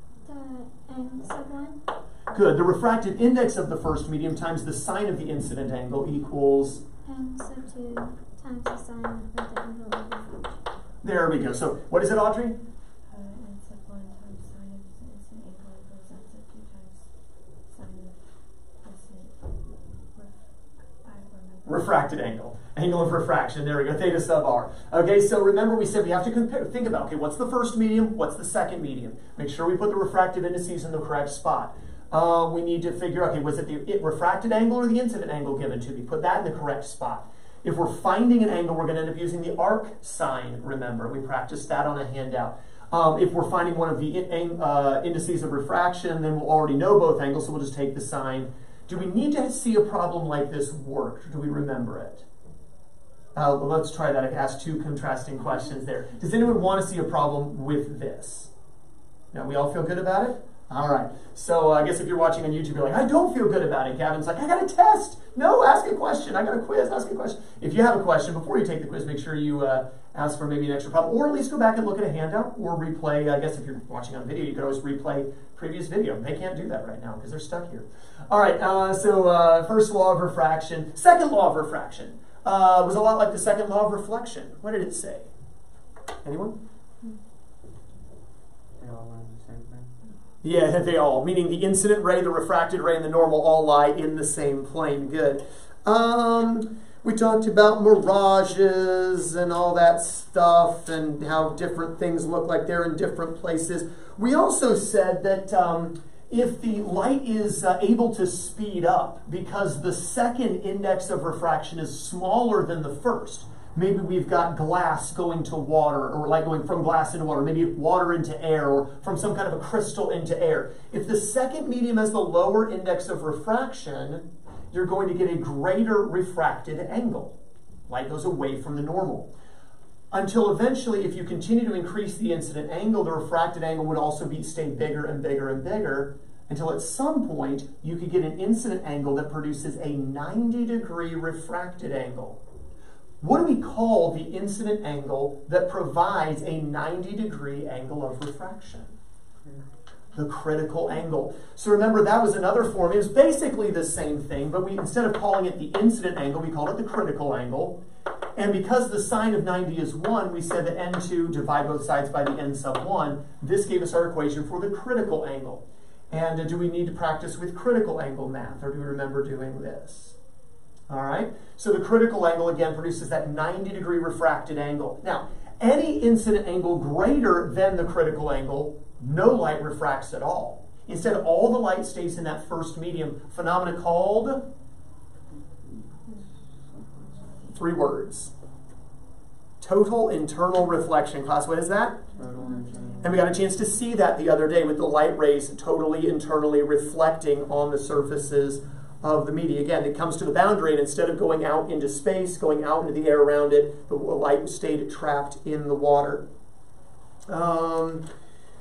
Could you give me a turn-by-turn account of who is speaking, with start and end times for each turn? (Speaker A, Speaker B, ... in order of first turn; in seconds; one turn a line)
Speaker A: 0.2-1.8
Speaker B: 2.3-6.8
Speaker A: 7.0-10.6
Speaker B: 11.0-12.6
Speaker C: 13.1-19.5
Speaker C: 20.1-20.4
Speaker C: 21.0-22.0
Speaker B: 21.6-52.2
Speaker B: 53.3-58.5
Speaker B: 59.3-85.3
Speaker B: 86.2-86.6
Speaker D: 88.8-89.9
Speaker B: 90.4-127.3
Speaker B: 127.9-129.3
Speaker B: 130.1-142.4
Speaker B: 143.2-148.9
Speaker B: 150.1-157.8
Speaker B: 158.3-170.2
Speaker B: 170.9-184.4
Speaker D: 185.3-187.3
Speaker B: 187.5-188.3
Speaker B: 189.6-192.0
Speaker D: 192.1-193.1
Speaker C: 192.4-192.9
Speaker B: 193.0-206.2
Speaker B: 207.3-208.0